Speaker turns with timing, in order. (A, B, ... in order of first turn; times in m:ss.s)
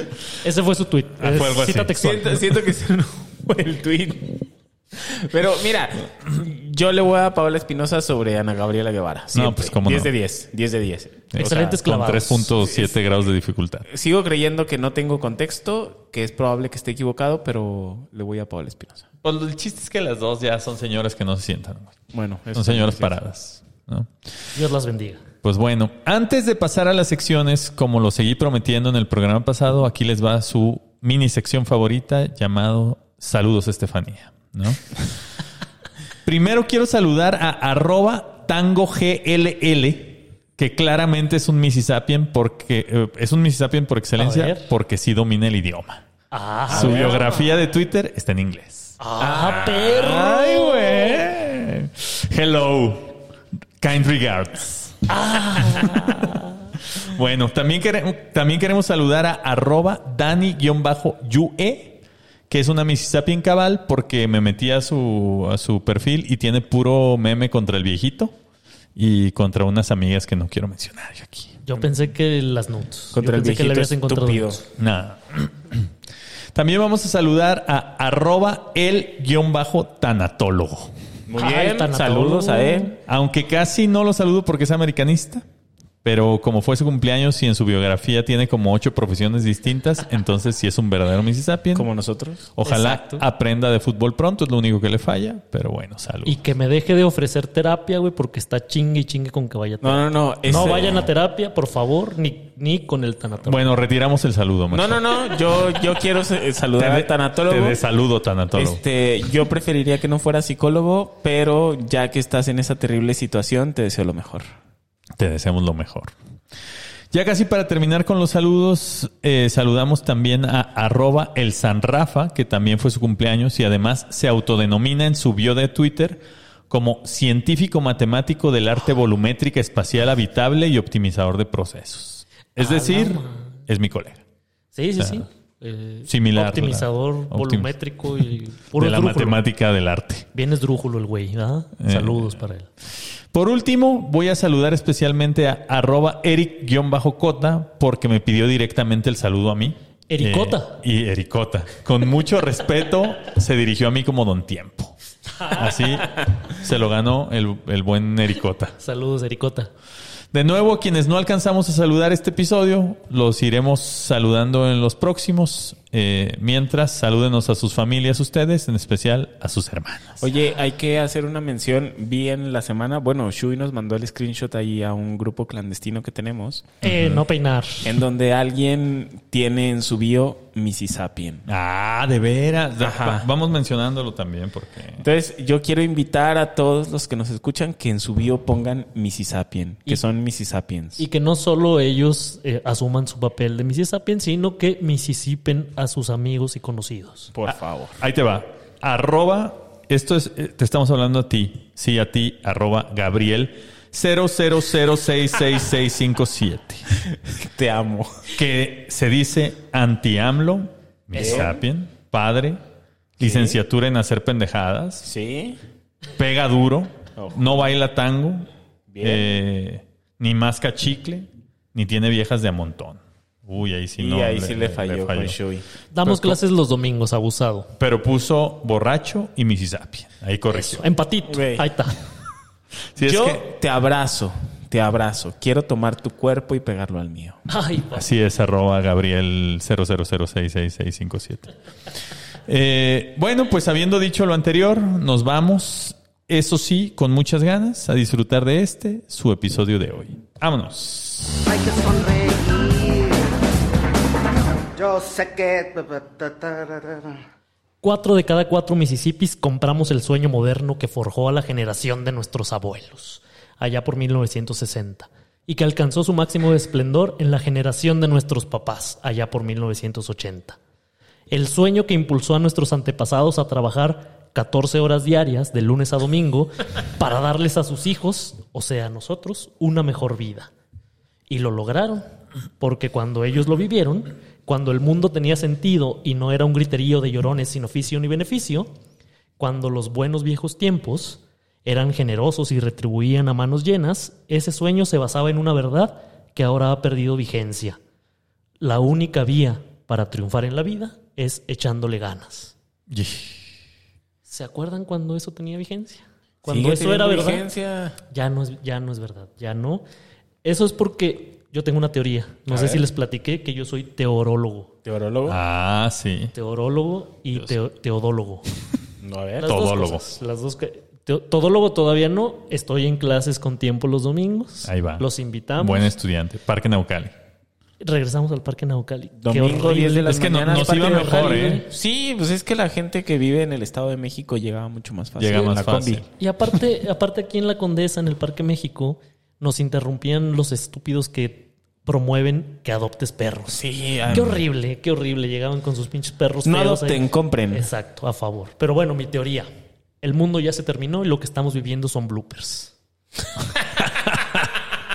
0:00.4-0:02.4 A
0:01.2-0:01.9 B
0:01.9-0:11.8 C
0:09.3-0:10.1 B
0:11.3-0:13.8 B
0:11.4-0:12.6 A
0:13.8-0:19.1 C
0:19.2-0:22.0 B
0:22.1-0:23.2 C
0:22.5-0:24.1 B
0:24.5-0:25.2 A
0:25.4-0:34.9 B
0:36.2-0:46.0 B
0:44.2-0:44.6 A
0:46.3-0:47.4 A
0:46.7-0:49.0 B
0:46.7-0:47.3 C
0:49.0-0:51.2 A
0:49.2-0:50.3 C
0:49.5-0:53.2 B
0:53.8-0:55.0 B
0:55.1-0:56.5 A
0:55.6-0:56.1 B
0:57.0-1:08.3 B
1:09.0-1:11.6 B
1:11.6-1:14.6 A
1:13.1-1:14.6 C
1:14.8-1:15.9 B
1:16.5-1:20.9 B
1:21.3-1:22.9 C
1:21.4-1:23.0 A
1:23.1-1:25.4 B
1:26.0-1:31.9 B
1:31.7-1:32.5 C
1:32.6-1:36.4 B
1:32.6-1:33.2 A
1:36.2-1:43.6 A
1:39.8-1:41.1 C
1:43.4-1:45.0 B
1:44.7-1:47.8 C
1:46.8-1:48.8 B
1:48.5-1:54.5 C
1:55.2-1:56.1 B
1:57.1-2:14.2 B
2:12.6-2:13.6 A
2:14.7-2:19.4 A
2:15.0-2:15.2 B
2:16.1-2:17.7 B
2:18.7-2:20.3 B
2:20.3-2:22.7 A
2:21.8-2:22.4 B
2:23.3-2:35.0 B
2:30.1-2:30.8 A
2:35.4-2:36.0 A
2:35.5-2:38.8 B
2:38.8-2:39.7 A
2:40.3-2:50.2 B
2:50.2-2:56.7 C
2:56.8-2:57.9 A
2:56.8-2:57.2 B
2:57.8-3:01.4 C
3:01.5-3:05.0 B
3:02.8-3:03.2 C
3:05.0-3:11.0 C
3:11.0-3:17.3 A
3:17.3-3:18.0 C
3:18.0-3:26.9 B
3:27.3-3:28.1 C
3:28.3-3:32.6 B
3:31.1-3:31.6 C
3:33.2-3:35.0 B
3:33.2-3:33.6 C
3:35.0-3:35.6 C
3:36.2-3:38.5 B
3:37.2-3:37.4 C
3:38.9-3:39.4 C
3:39.0-3:45.4 B
3:44.0-3:46.2 C
3:45.9-3:47.7 A
3:47.8-3:50.8 B
3:50.5-3:52.0 A
3:51.3-3:51.7 C
3:52.9-3:53.4 B
3:53.0-3:57.4 C
3:57.5-3:58.1 A
3:57.9-4:01.5 B
4:02.4-4:11.4 B
4:11.4-4:13.3 D
4:14.7-4:17.2 D
4:17.8-4:30.6 A
4:31.3-4:40.5 A
4:41.3-4:42.0 A
4:42.6-4:48.7 A
4:49.4-4:57.8 A
4:58.6-5:02.5 A
5:02.9-5:03.4 B
5:04.3-5:07.4 A
5:06.4-5:08.0 C
5:08.1-5:09.8 A
5:10.4-5:14.7 A
5:12.5-5:12.8 C
5:14.8-5:15.4 C
5:15.2-5:16.3 B
5:16.3-5:18.5 A
5:19.0-5:19.5 C
5:19.4-5:25.8 A
5:19.4-5:20.0 B
5:24.6-5:25.0 B
5:25.6-5:27.1 B
5:27.8-5:31.7 A
5:29.2-5:36.0 C
5:30.1-5:31.6 B
5:35.2-5:36.1 B
5:36.2-5:49.5 A
5:43.5-5:44.3 C
5:44.1-5:44.4 B
5:46.4-5:47.6 C
5:50.0-5:52.7 A
5:53.9-5:54.4 B